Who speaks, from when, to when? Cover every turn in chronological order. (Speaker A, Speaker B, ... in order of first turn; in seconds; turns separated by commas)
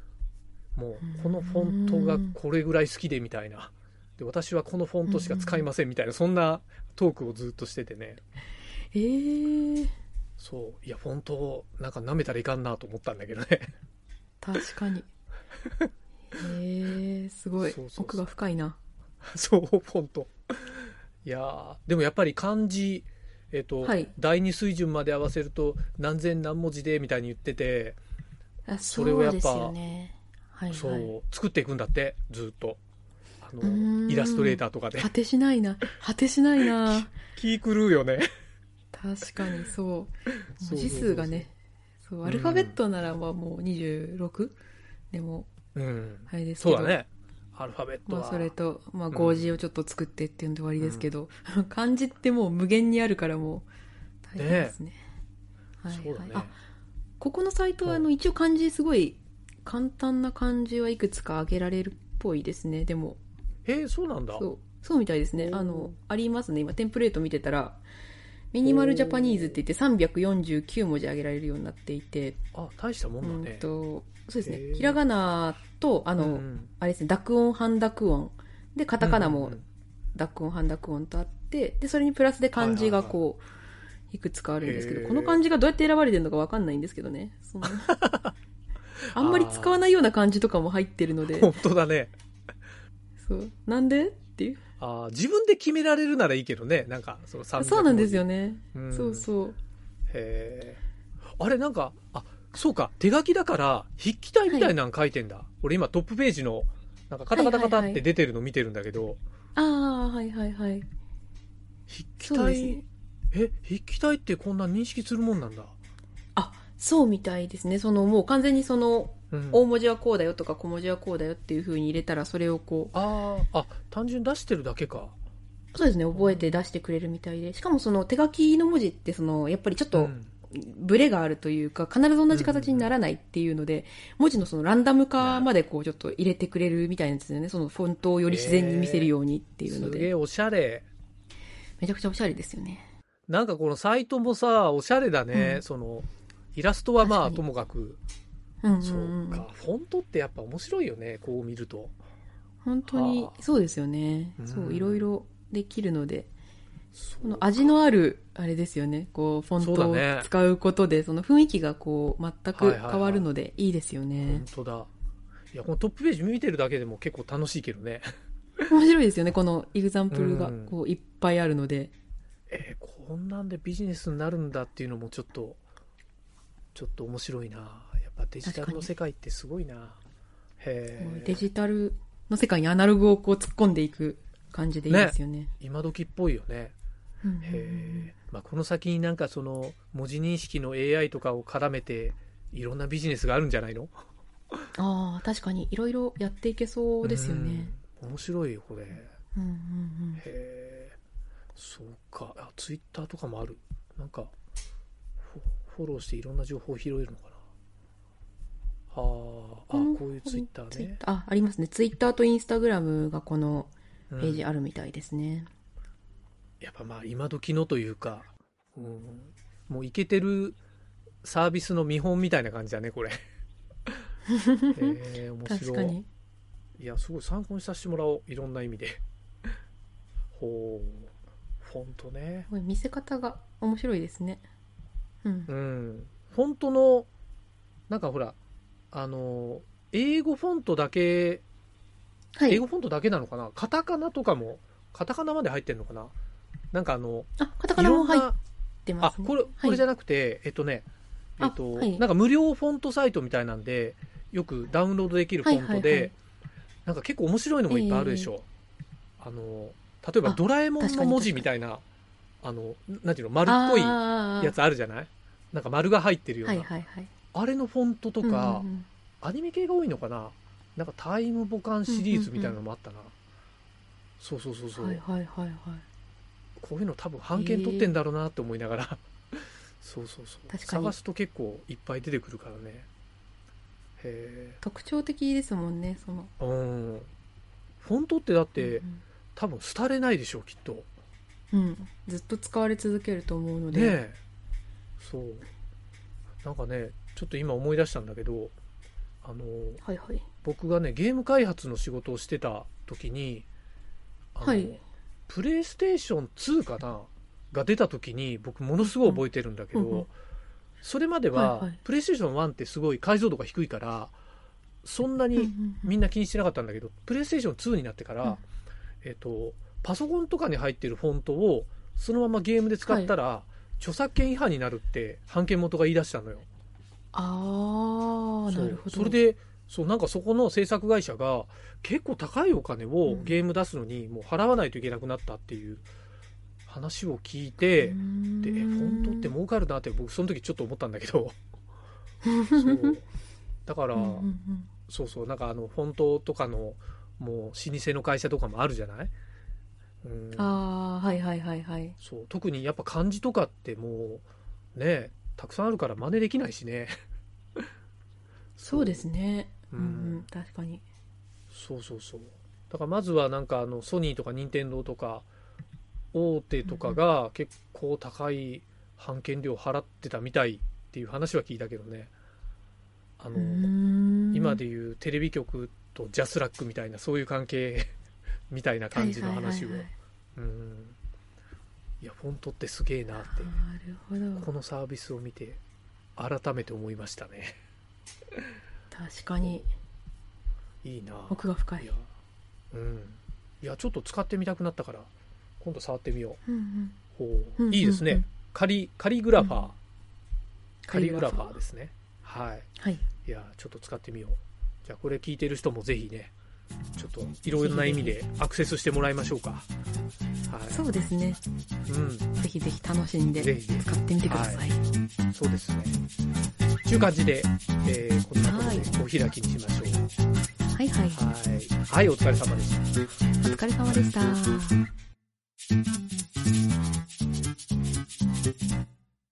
Speaker A: 0.7-8.2, Speaker B: 1.0-2.3, Speaker B: 5.0-5.6, Speaker B: 8.9-9.9, Speaker A: 10.4-13.7, Speaker B: 14.4-15.1, Speaker B: 16.3-18.8, Speaker A: 17.6-18.2, Speaker A: 19.2-28.0, Speaker B: 23.8-24.1, Speaker B: 28.7-31.1, Speaker A: 28.9-29.7, Speaker A: 30.7-32.8, Speaker A: 33.4-35.1, Speaker B: 33.6-37.1, Speaker A: 36.8-38.3, Speaker B: 38.9-41.5, Speaker A: 40.5-41.5, Speaker B: 42.0-44.6, Speaker A: 42.2-42.8, Speaker B: 45.1-45.5, Speaker A: 45.7-48.5, Speaker B: 46.3-47.0, Speaker B: 48.1-53.7, Speaker A: 49.1-49.6, Speaker A: 50.8-51.0, Speaker B: 54.2-55.0, Speaker A: 54.4-54.7, Speaker B: 55.8-56.5, Speaker A: 55.9-56.5, Speaker B: 57.2-63.2, Speaker A: 63.6-64.5, Speaker B: 64.3-67.8, Speaker A: 65.4-65.9, Speaker B: 68.5-72.4, Speaker A: 68.6-69.6, Speaker A: 72.5-73.7, Speaker B: 73.2-79.6, Speaker A: 74.4-75.0, Speaker A: 76.2-76.7, Speaker A: 79.0-79.6, Speaker B: 80.1-83.4, Speaker A: 82.5-83.1, Speaker B: 84.1-88.0, Speaker A: 84.6-85.4, Speaker A: 87.6-88.3, Speaker B: 89.1-91.5, Speaker A: 89.1-89.8, Speaker A: 91.2-92.1, Speaker B: 93.2-94.6, Speaker A: 94.8-99.3, Speaker B: 97.6-99.6, Speaker A: 100.1-100.8, Speaker A: 101.4-109.2, Speaker B: 107.3-108.0, Speaker B: 109.5-110.9, Speaker A: 111.9-115.7, Speaker B: 112.2-112.8, Speaker B: 116.3-123.0, Speaker A: 119.3-119.6, Speaker A: 122.9-125.2, Speaker B: 125.7-140.1, Speaker A: 126.1-126.6, Speaker A: 129.9-130.3, Speaker A: 132.3-132.9, Speaker A: 135.2-135.5, Speaker A: 138.3-139.1, Speaker A: 139.7-140.9, Speaker B: 141.8-142.8, Speaker A: 143.3-148.0, Speaker B: 145.3-145.6, Speaker B: 147.0-147.4, Speaker B: 148.6-149.4, Speaker A: 148.8-151.9, Speaker B: 152.6-156.3, Speaker A: 152.9-153.4, Speaker A: 154.4-155.1, Speaker A: 156.9-157.5, Speaker B: 157.2-164.4, Speaker A: 159.6-160.3, Speaker A: 162.5-163.3, Speaker A: 164.2-164.9, Speaker A: 165.5-168.1, Speaker B: 168.7-171.9, Speaker A: 170.1-170.7, Speaker A: 172.5-175.6, Speaker A: 176.7-180.0, Speaker B: 178.4-178.9, Speaker A: 180.6-181.4, Speaker B: 181.0-185.5, Speaker A: 184.9-186.7, Speaker B: 187.2-188.1, Speaker A: 187.4-193.9, Speaker B: 194.7-197.7, Speaker A: 197.0-199.1, Speaker B: 199.3-200.2, Speaker A: 200.2-200.9, Speaker A: 201.6-204.3, Speaker A: 205.2-207.4, Speaker A: 208.9-211.0, Speaker B: 209.7-215.5, Speaker A: 214.1-214.4, Speaker A: 216.6-220.6, Speaker A: 221.2-223.2, Speaker B: 224.3-226.1, Speaker A: 224.7-226.0, Speaker A: 226.8-229.0, Speaker A: 230.3-232.5, Speaker B: 232.5-234.4, Speaker B: 235.2-235.5, Speaker A: 235.5-237.1, Speaker A: 237.9-238.4, Speaker A: 238.9-241.4, Speaker B: 242.3-242.6, Speaker A: 242.5-246.1, Speaker A: 246.7-248.4, Speaker B: 247.4-248.3, Speaker B: 248.8-249.8, Speaker A: 249.0-250.9, Speaker A: 251.4-256.1, Speaker B: 251.4-252.0, Speaker B: 255.4-256.1, Speaker A: 256.9-258.4, Speaker B: 257.7-258.3, Speaker A: 259.2-261.8, Speaker B: 260.2-261.5, Speaker A: 262.4-266.7, Speaker B: 263.4-264.5, Speaker B: 266.4-267.1, Speaker A: 267.3-268.7, Speaker B: 268.2-268.9, Speaker A: 269.2-273.1, Speaker B: 271.9-272.6, Speaker A: 274.2-275.0, Speaker B: 274.8-275.8, Speaker A: 276.6-279.0, Speaker B: 277.3-277.9, Speaker A: 279.8-282.9, Speaker B: 280.5-280.9, Speaker A: 284.0-284.6, Speaker B: 284.6-286.3, Speaker A: 286.4-287.1, Speaker A: 287.8-288.8, Speaker B: 288.6-289.0, Speaker A: 289.3-290.9, Speaker B: 291.5-294.0, Speaker A: 293.7-294.2, Speaker A: 295.0-295.4, Speaker A: 296.4-298.5, Speaker A: 299.2-299.8, Speaker B: 299.8-300.2, Speaker A: 300.4-303.5, Speaker A: 304.3-310.1, Speaker B: 304.4-304.8, Speaker B: 308.8-309.2, Speaker B: 309.7-310.1, Speaker A: 310.8-314.1, Speaker B: 311.3-311.8, Speaker A: 314.8-318.4, Speaker B: 315.4-315.9, Speaker A: 319.0-326.4, Speaker B: 322.8-323.1, Speaker B: 327.1-329.2, Speaker A: 328.5-335.9, Speaker B: 333.1-333.4, Speaker A: 336.6-341.4, Speaker B: 337.8-339.3, Speaker B: 342.2-343.0, Speaker A: 342.6-343.0, Speaker A: 343.6-344.3, Speaker B: 343.9-344.7, Speaker A: 344.9-349.1, Speaker A: 350.0-350.6, Speaker B: 350.3-351.9, Speaker A: 352.0-356.9, Speaker A: 358.6-359.0, Speaker B: 358.7-360.8, Speaker A: 359.7-360.2, Speaker A: 361.5-365.3, Speaker A: 366.1-372.1, Speaker B: 366.7-367.0, Speaker A: 373.2-373.7, Speaker B: 373.3-374.6, Speaker A: 374.3-377.9, Speaker A: 378.5-381.0, Speaker B: 378.9-379.9, Speaker A: 382.0-383.6, Speaker B: 383.2-384.5, Speaker A: 384.4-385.6, Speaker A: 386.1-387.5, Speaker B: 388.9-389.7, Speaker A: 390.8-392.1, Speaker B: 391.3-391.9, Speaker A: 392.7-396.4, Speaker B: 396.5-397.0, Speaker A: 397.1-399.8, Speaker B: 397.6-398.2, Speaker B: 399.4-399.6, Speaker B: 400.8-401.6, Speaker A: 400.9-402.7, Speaker B: 402.8-403.0, Speaker A: 403.2-406.3, Speaker A: 407.0-409.7, Speaker B: 407.5-408.2, Speaker A: 410.5-410.8, Speaker B: 410.7-411.4, Speaker A: 411.9-412.3, Speaker B: 412.4-414.8, Speaker A: 413.4-414.6, Speaker A: 415.3-416.0, Speaker A: 416.8-420.1, Speaker B: 418.4-418.9, Speaker B: 420.7-421.2, Speaker A: 421.1-422.9, Speaker B: 423.4-424.8